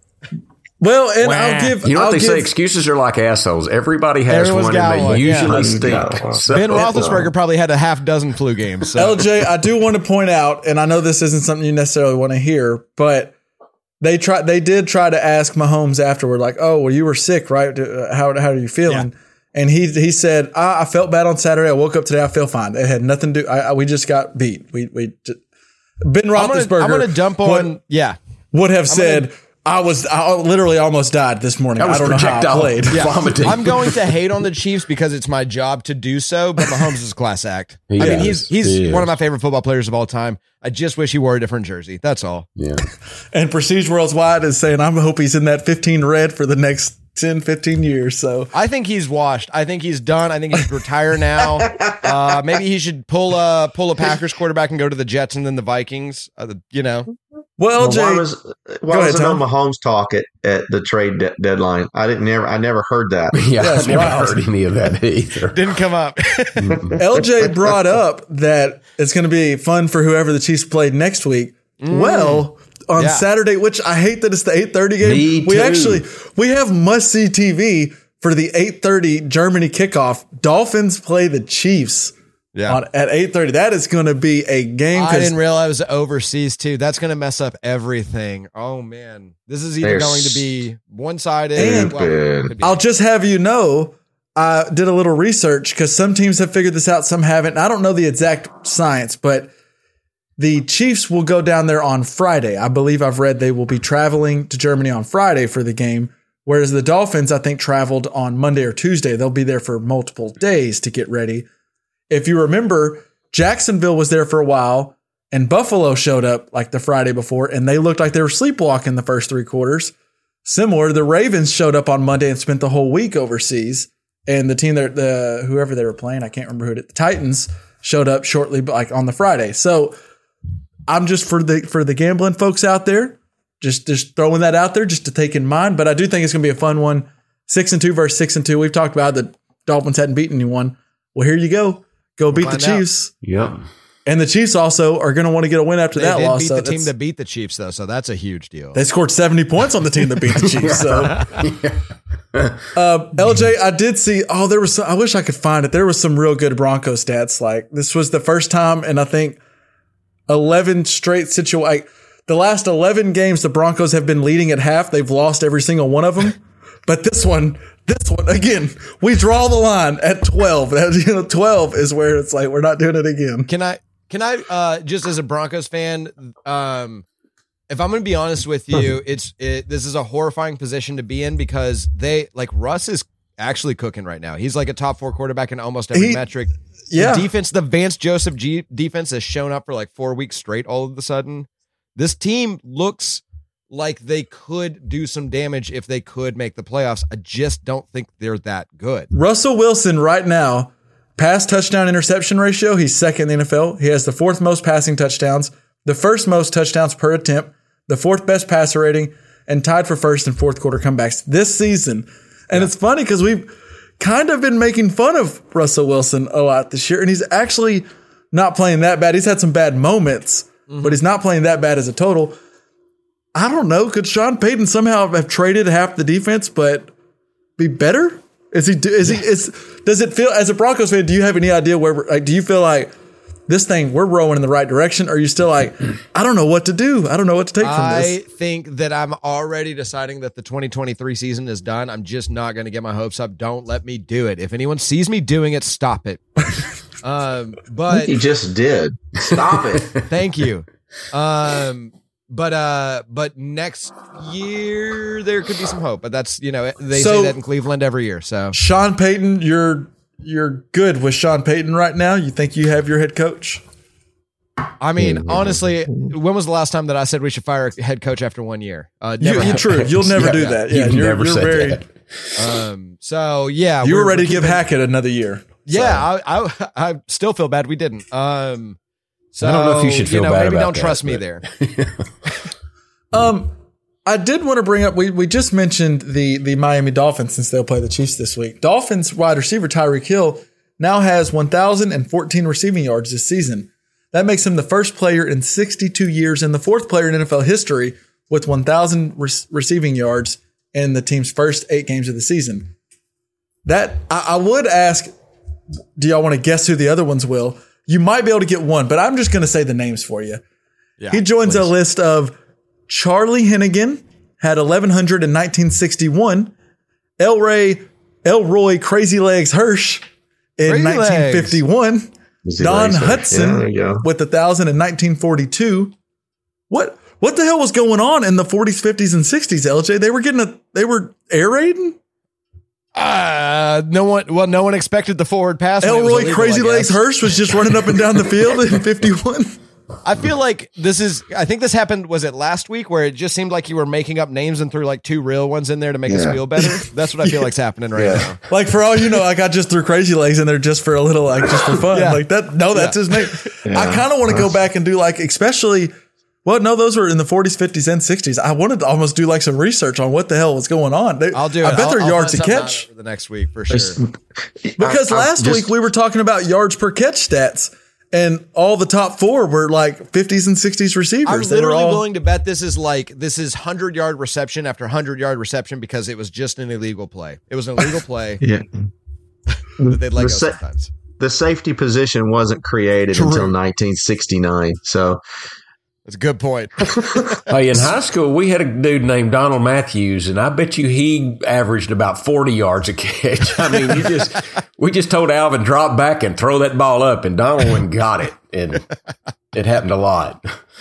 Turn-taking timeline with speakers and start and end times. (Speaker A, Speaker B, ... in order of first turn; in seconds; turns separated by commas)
Speaker A: 0.8-2.5, Speaker B: 1.2-7.1, Speaker C: 4.3-5.7, Speaker D: 5.5-7.3, Speaker C: 6.5-9.1, Speaker A: 8.9-13.3, Speaker A: 14.0-25.4, Speaker A: 26.1-27.7, Speaker C: 26.4-28.2, Speaker A: 28.5-33.1, Speaker C: 28.9-29.3, Speaker B: 31.8-34.0, Speaker C: 32.9-42.5, Speaker B: 37.9-39.1, Speaker A: 38.0-38.3, Speaker B: 42.6-42.8, Speaker A: 43.3-48.5, Speaker C: 48.5-57.1, Speaker D: 51.6-52.4, Speaker A: 57.6-58.3, Speaker D: 57.8-63.4, Speaker A: 58.9-59.4, Speaker B: 63.3-65.6, Speaker A: 63.6-64.4, Speaker C: 65.5-66.8, Speaker B: 66.6-66.9, Speaker D: 66.7-67.5, Speaker A: 67.0-82.1, Speaker C: 71.8-72.4, Speaker C: 73.0-73.2, Speaker B: 75.0-76.0, Speaker C: 82.5-82.8, Speaker A: 82.7-85.3, Speaker C: 84.9-92.8, Speaker D: 89.8-90.4, Speaker D: 91.5-92.5, Speaker A: 91.6-91.9, Speaker A: 92.6-99.5, Speaker A: 100.4-111.5, Speaker A: 112.1-119.9, Speaker A: 120.4-129.9, Speaker A: 130.9-143.1, Speaker C: 142.3-142.8, Speaker B: 143.2-143.6, Speaker A: 144.1-146.9, Speaker C: 145.9-148.8, Speaker A: 148.7-151.3, Speaker B: 150.5-151.8, Speaker B: 152.3-152.7, Speaker A: 152.7-159.4, Speaker A: 160.3-173.5, Speaker C: 173.5-177.1, Speaker C: 177.7-199.1, Speaker A: 185.9-186.2, Speaker A: 186.9-187.3, Speaker A: 199.1-222.4, Speaker C: 220.7-221.0, Speaker A: 223.3-226.9, Speaker A: 227.6-232.9, Speaker A: 233.5-238.2, Speaker C: 237.6-246.2, Speaker C: 247.0-248.2, Speaker D: 247.9-249.9, Speaker C: 250.1-258.5, Speaker A: 256.9-257.4, Speaker A: 258.5-263.6, Speaker C: 264.8-270.6, Speaker D: 265.0-265.6, Speaker A: 269.2-271.8, Speaker B: 269.4-272.6, Speaker C: 272.4-274.6, Speaker A: 273.8-275.4, Speaker C: 275.7-278.8, Speaker C: 279.3-281.4, Speaker B: 279.4-282.1, Speaker A: 283.1-283.5, Speaker A: 284.1-302.7, Speaker A: 303.6-305.1, Speaker A: 306.0-310.4, Speaker C: 311.0-311.6, Speaker A: 311.1-312.3, Speaker A: 312.9-316.5, Speaker A: 317.2-320.0, Speaker A: 320.6-325.9, Speaker C: 320.7-321.6, Speaker D: 322.4-324.0, Speaker A: 326.7-332.0, Speaker C: 332.9-337.1, Speaker A: 335.8-339.6, Speaker C: 340.0-348.4, Speaker D: 346.1-346.4, Speaker D: 347.9-348.2, Speaker A: 348.5-355.9, Speaker C: 351.9-352.2, Speaker D: 353.6-354.5, Speaker A: 356.4-362.9, Speaker C: 361.3-364.0, Speaker D: 363.7-364.0, Speaker D: 364.6-365.7, Speaker A: 364.8-372.0, Speaker C: 371.2-378.4, Speaker D: 378.4-378.7, Speaker C: 379.8-380.9, Speaker D: 379.8-380.6, Speaker D: 381.2-385.2, Speaker C: 383.1-383.5, Speaker C: 386.1-387.4, Speaker D: 386.9-387.2, Speaker B: 387.5-398.9, Speaker C: 393.7-394.0, Speaker B: 399.5-400.5